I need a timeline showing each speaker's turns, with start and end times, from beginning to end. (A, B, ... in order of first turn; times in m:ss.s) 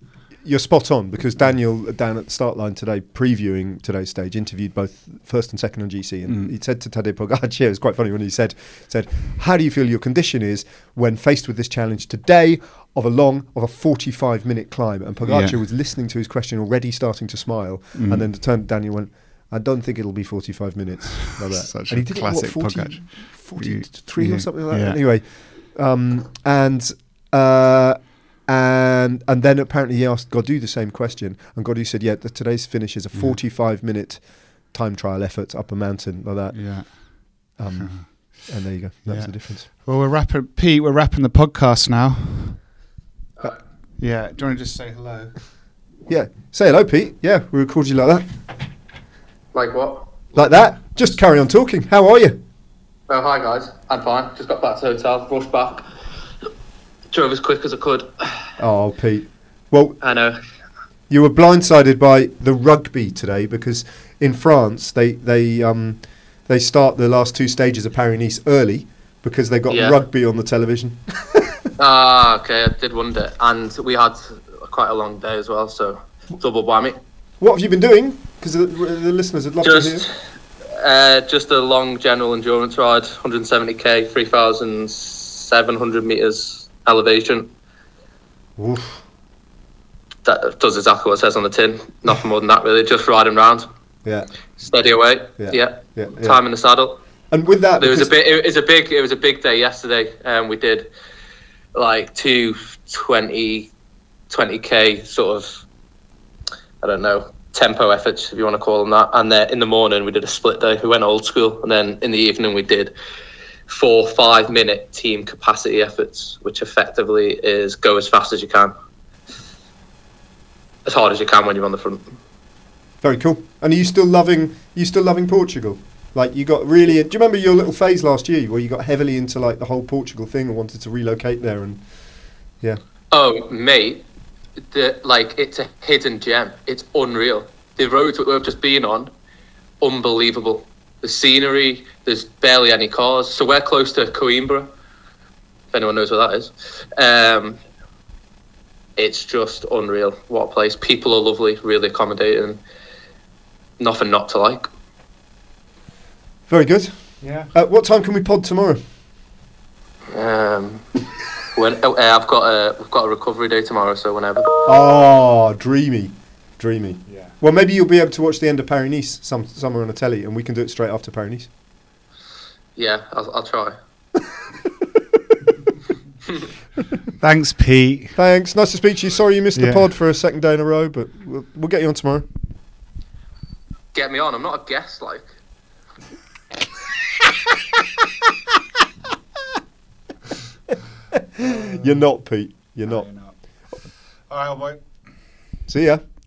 0:00.4-0:36.9 A
0:15.2-0:15.6 B
0:17.9-0:18.2 B
0:21.4-0:25.0 B
0:36.5-0:38.3 B
0:37.6-0:39.7 A
0:39.0-0:42.6 B
0:44.0-0:45.3 B
0:46.1-0:48.2 A
0:49.5-0:50.1 C
0:50.3-0:52.4 A
0:53.1-0:55.9 C
0:57.1-0:58.5 C
0:58.6-1:00.0 A
1:00.0-1:00.4 C
1:01.1-1:11.7 A
1:09.7-1:10.0 C
1:11.8-1:17.0 C
1:17.4-1:20.1 A
1:19.6-1:20.2 C
1:20.7-1:27.5 C
1:28.6-1:29.0 A
1:30.2-1:33.7 C
1:34.6-1:37.0 C
1:35.4-1:36.4 A
1:37.3-1:38.1 A
1:37.8-1:40.9 C
1:41.7-1:43.7 C
1:44.3-1:45.6 C
1:46.8-1:52.9 C
1:53.7-1:58.7 C
2:00.8-2:02.1 C
2:03.0-2:11.8 A
2:13.1-2:14.0 C
2:14.7-2:19.1 C
2:19.8-2:24.7 C
2:25.7-2:27.6 C
2:29.0-2:32.6 C
2:33.8-2:34.7 C
2:36.5-2:36.9 A
2:37.2-2:37.5 B
2:37.5-2:38.8 A
2:40.1-2:44.7 C
2:44.6-2:51.5 A
2:47.1-2:47.3 B
2:52.8-2:53.8 C
2:57.2-2:58.2 B
2:58.2-3:02.3 A
2:59.5-2:59.8 B
3:03.9-3:05.3 C
3:11.1-3:13.1 A
3:11.4-3:11.9 B
3:12.8-3:13.4 B
3:14.3-3:14.8 B
3:15.7-3:16.0 A